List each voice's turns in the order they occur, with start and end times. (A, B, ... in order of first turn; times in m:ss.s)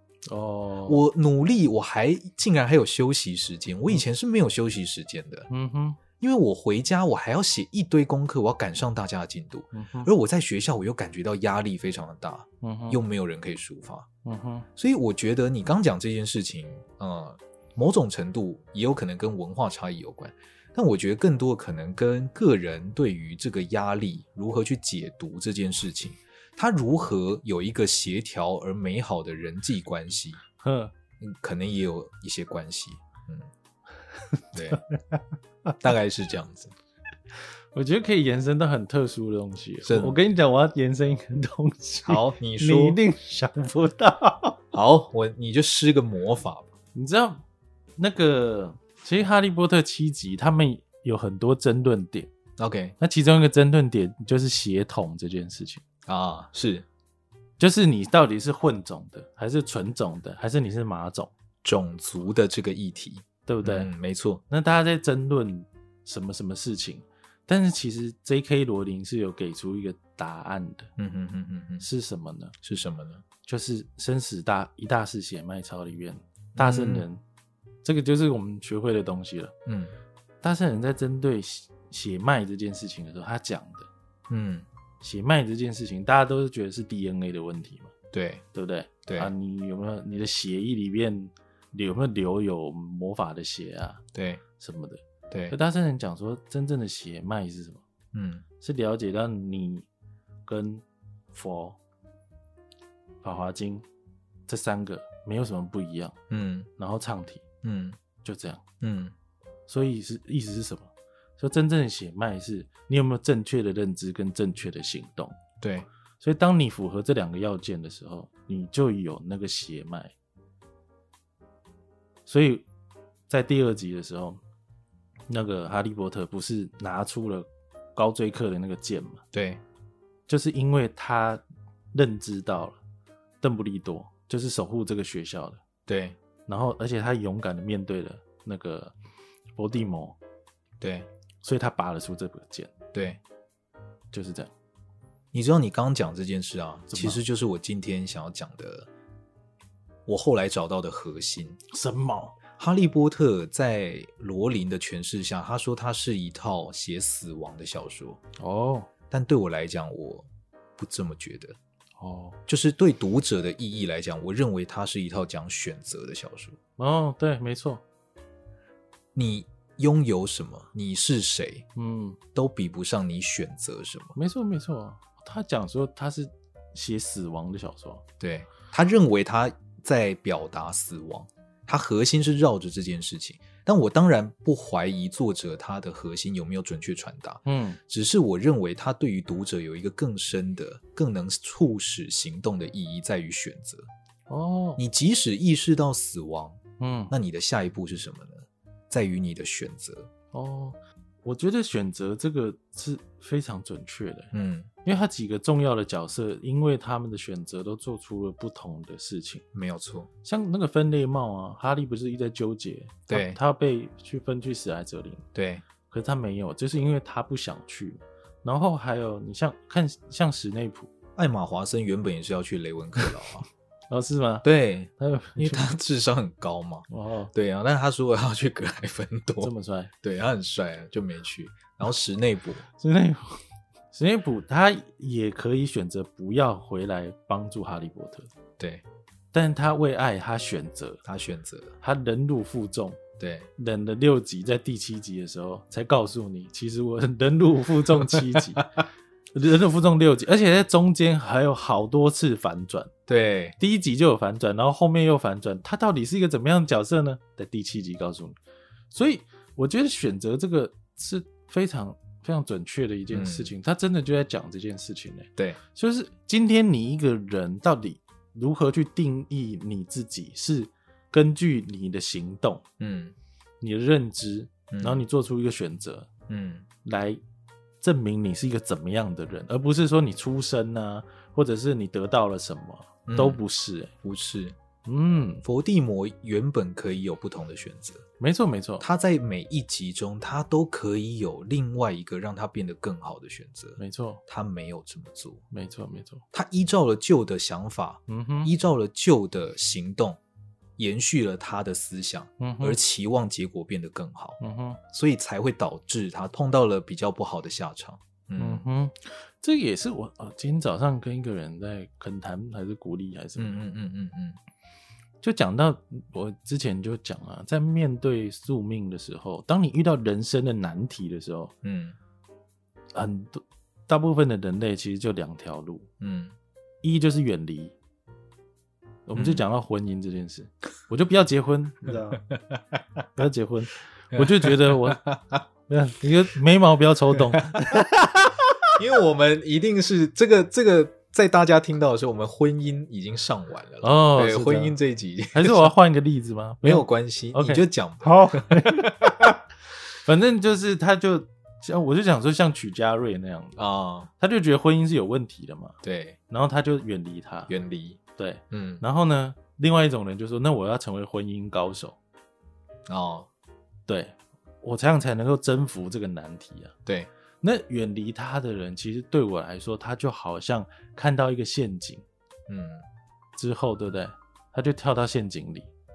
0:00.3-0:01.0 A
0:00.8-0:05.5 B
0:05.5-0:06.0 A
0:06.2-0:14.0 B
0:09.7-0:10.1 A
0:12.6-0:13.0 A
0:14.2-0:14.7 A
0:14.8-0:30.4 B
0:30.6-0:30.9 A
0:31.2-0:33.5 B
0:34.5-0:34.8 B
0:34.7-0:35.2 A
0:35.8-0:36.7 B
0:37.7-0:44.6 A
0:39.8-0:40.2 B
0:42.0-0:43.0 B
0:44.7-0:46.7 B
0:46.9-0:47.4 A
0:48.0-0:52.3 A
0:52.6-0:53.0 B
0:53.0-0:55.8 A
0:56.1-0:56.8 B
0:57.6-1:01.3 A
1:01.6-1:04.4 B
1:03.4-1:03.9 A
1:04.5-1:10.9 A
1:11.0-1:11.8 B
1:11.8-1:12.5 A
1:12.6-1:13.2 B
1:13.4-1:17.2 A
1:16.6-1:17.1 B
1:17.8-1:19.5 A
1:19.7-1:19.9 B
1:20.4-1:23.9 A
1:24.3-1:24.6 B
1:25.0-1:27.9 A
1:28.1-1:28.4 B
1:28.5-1:34.0 A
1:29.0-1:29.3 B
1:34.1-1:34.4 B
1:34.6-1:37.8 A
1:35.3-1:35.6 B
1:38.1-1:38.4 B
1:38.6-1:39.8 A
1:40.4-1:41.8 A
1:43.2-1:43.8 A
1:44.5-1:46.1 A
1:46.3-1:46.7 B
1:46.8-1:47.4 A
1:47.6-1:48.0 B
1:48.2-1:48.6 A
1:48.8-1:49.1 B
1:49.7-1:55.4 A
1:55.6-1:55.9 B
1:56.2-2:00.1 A
2:02.2-2:02.6 A
2:03.3-2:04.4 A
2:05.3-2:09.2 A
2:09.3-2:09.6 B
2:10.3-2:11.4 A
2:11.9-2:12.8 A
2:13.4-2:15.6 A
2:15.9-2:16.2 B
2:16.5-2:18.9 A
2:19.6-2:20.2 A
2:20.8-2:21.1 B
2:21.4-2:22.7 A
2:22.9-2:23.2 B
2:24.1-2:24.5 A
2:25.3-2:28.9 B
2:26.9-2:27.2 A
2:30.0-2:31.6 B
2:31.7-2:32.4 A
2:32.6-2:38.2 B
2:38.4-2:38.9 A
2:39.1-2:41.6 B
2:42.0-2:42.4 A
2:42.5-2:46.6 B
2:46.8-2:47.8 A
2:49.1-2:51.6 B
2:51.8-2:52.2 A
2:52.3-2:54.2 B
2:54.1-2:58.0 A
2:58.2-3:13.9 B
3:07.4-3:07.8 A
3:14.3-3:14.8 A
3:14.8-3:16.6 B
3:16.8-3:17.1 A
3:17.1-3:20.1 B
3:20.3-3:24.3 A
3:24.3-3:24.7 B
3:24.8-3:29.4 A
3:29.5-3:30.1 B
3:30.2-3:35.2 A
3:33.1-3:33.4 B
3:35.3-3:35.6 B
3:35.9-3:40.9 A
3:41.2-3:43.4 B
3:43.9-3:45.7 A
3:44.4-3:52.6 B
3:46.9-3:47.3 A
3:49.4-3:49.9 A
3:52.8-3:58.3 A
3:58.6-3:58.8 B
3:59.3-4:01.0 A
4:01.0-4:01.8 B
4:01.8-4:03.0 A
4:03.2-4:03.5 B
4:03.6-4:08.8 A
4:09.3-4:12.9 A
4:13.1-4:13.6 B
4:13.6-4:18.4 A
4:18.9-4:32.6 A
4:23.1-4:23.5 B
4:32.8-4:33.1 B
4:33.6-4:36.1 A
4:34.7-4:35.0 B
4:36.3-4:36.6 B
4:36.8-4:37.2 A
4:37.8-4:43.9 A
4:43.1-4:43.4 B
4:44.0-4:44.6 B
4:44.8-4:45.4 A
4:45.4-4:48.0 B
4:48.2-4:48.8 A
4:48.8-4:55.4 B
4:53.8-4:54.2 A
4:55.5-4:56.2 A
4:56.3-5:00.2 B
4:58.1-4:58.5 A
5:00.8-5:04.4 B
5:02.4-5:02.8 A
5:04.4-5:04.8 A
5:04.9-5:08.6 B
5:08.4-5:13.6 A
5:13.4-5:14.4 B
5:15.2-5:21.5 A
5:21.6-5:22.0 B
5:22.9-5:25.9 A
5:26.0-5:26.4 B
5:26.8-5:27.7 A
5:29.0-5:32.2 A
5:29.1-5:29.4 B
5:32.2-5:32.6 B
5:33.1-5:35.0 A
5:34.1-5:35.2 B
5:35.7-5:37.9 A
5:37.5-5:37.8 B
5:38.8-5:45.7 B
5:43.8-5:44.8 A
5:45.3-5:49.3 A
5:46.6-5:49.3 B
5:50.0-5:53.6 A
5:53.6-5:54.1 B
5:54.2-5:55.8 A
5:55.8-5:56.2 B
5:56.3-5:57.5 A
5:57.5-5:58.0 B
5:58.2-6:02.0 A
5:58.5-5:58.8 B
6:02.9-6:03.3 B
6:03.9-6:06.7 A
6:07.4-6:12.0 A
6:12.5-6:12.8 B
6:13.4-6:15.7 A